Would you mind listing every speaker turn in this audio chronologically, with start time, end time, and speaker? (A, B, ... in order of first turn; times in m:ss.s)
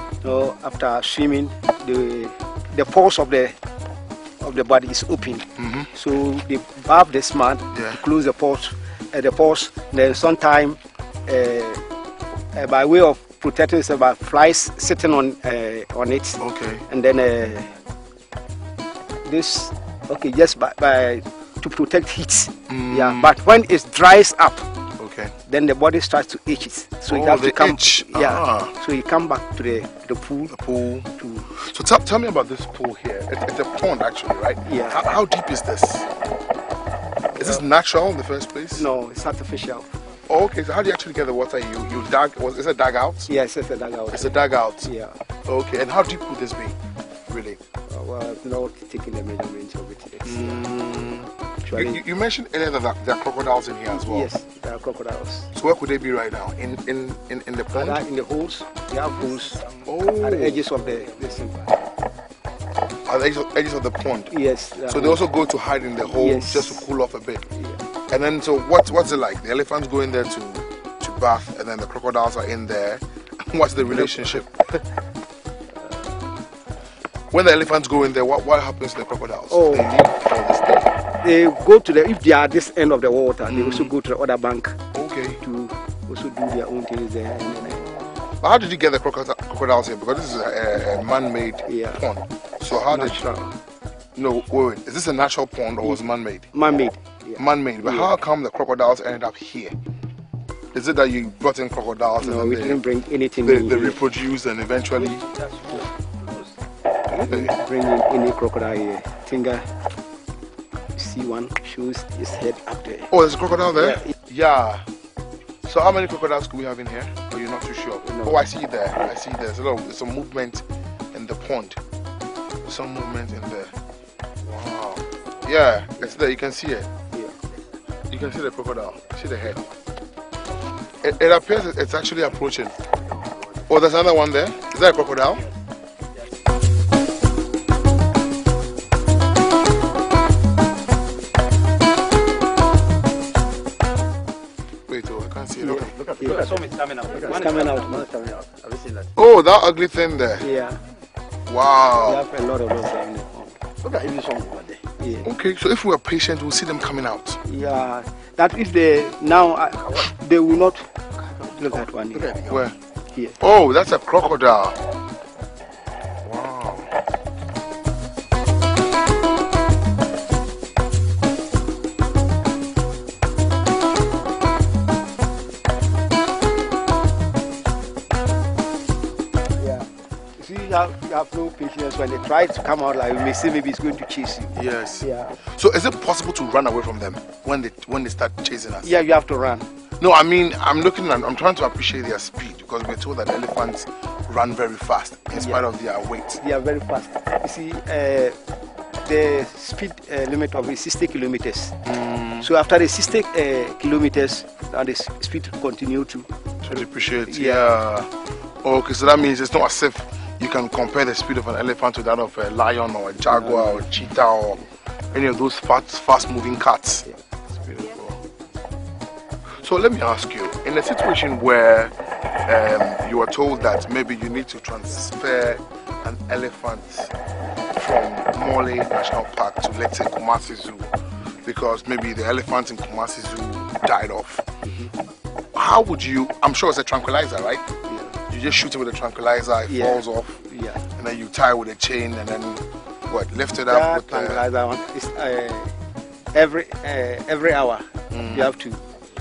0:00.2-0:03.6 A
0:04.4-0:11.8 A
0:05.6-0:05.9 B
0:07.7-0:08.0 B
0:12.5-0:17.7 A
0:16.4-0:16.8 B
0:19.2-0:24.7 A
0:22.7-0:23.3 B
0:25.0-0:25.3 B
0:25.5-0:30.6 A
0:27.1-0:28.7 B
0:30.5-0:36.1 B
0:31.2-0:31.5 A
0:34.6-0:35.1 A
0:37.3-0:37.6 A
0:37.3-0:38.9 B
0:38.7-0:39.9 A
0:40.3-0:43.3 B
0:43.3-0:45.2 A
0:44.1-0:44.9 B
0:45.5-0:46.8 B
0:47.3-0:47.6 B
0:47.9-0:50.7 A
0:50.2-0:54.3 B
0:51.6-0:52.0 A
0:53.9-0:55.5 A
0:55.5-0:58.0 B
0:57.7-1:01.8 A
0:59.9-1:00.7 B
1:03.1-1:04.3 B
1:04.3-1:05.2 A
1:04.9-1:07.5 B
1:06.0-1:06.9 A
1:07.5-1:07.8 A
1:08.1-1:14.5 B
1:13.8-1:14.8 A
1:17.3-1:20.9 B
1:19.5-1:19.9 A
1:21.2-1:24.8 A
1:23.5-1:23.9 B
1:24.9-1:25.4 B
1:25.4-1:27.8 A
1:27.5-1:33.3 B
1:31.7-1:32.0 A
1:32.9-1:33.6 A
1:34.2-1:36.5 B
1:36.5-1:38.1 A
1:37.4-1:39.7 B
1:40.7-1:42.8 B
1:42.2-1:44.0 A
1:43.4-1:45.3 B
1:45.0-1:46.5 A
1:47.1-1:49.7 A
1:47.1-1:47.5 B
1:51.0-1:53.1 A
1:53.1-1:54.8 B
1:53.8-1:54.1 A
1:55.6-2:01.8 B
1:58.0-1:58.4 A
2:02.6-2:03.7 B
2:04.4-2:06.9 B
2:08.1-2:09.7 B
2:11.0-2:12.7 B
2:13.7-2:15.4 B
2:24.9-2:25.9 B
2:25.6-2:28.3 A
2:26.0-2:29.1 C
2:29.2-2:30.5 B
2:30.4-2:30.8 A
2:31.5-2:32.2 B
2:32.0-2:33.6 A
2:33.8-2:34.8 C
2:35.0-2:35.3 A
2:35.2-2:37.4 B
2:37.4-2:42.4 A
2:42.5-2:42.8 B
2:43.4-2:44.8 B
2:46.2-2:46.9 B
2:59.6-3:05.4 A
3:04.5-3:09.0 B
3:08.8-3:09.7 A
3:10.0-3:16.4 B
3:15.3-3:15.6 A
3:16.4-3:18.4 A
3:19.0-3:21.8 A
3:21.9-3:22.5 B
3:22.4-3:27.7 A
3:26.6-3:28.1 B
3:28.6-3:38.2 B
3:33.3-3:33.9 A
3:39.6-3:47.1 B
3:47.8-3:54.5 B
3:54.6-3:54.9 A
3:55.5-3:57.6 B
3:57.9-3:58.2 A
3:58.3-4:04.5 B
3:59.7-4:00.8 A
4:03.7-4:05.7 A
4:06.3-4:08.8 A
4:08.1-4:08.6 B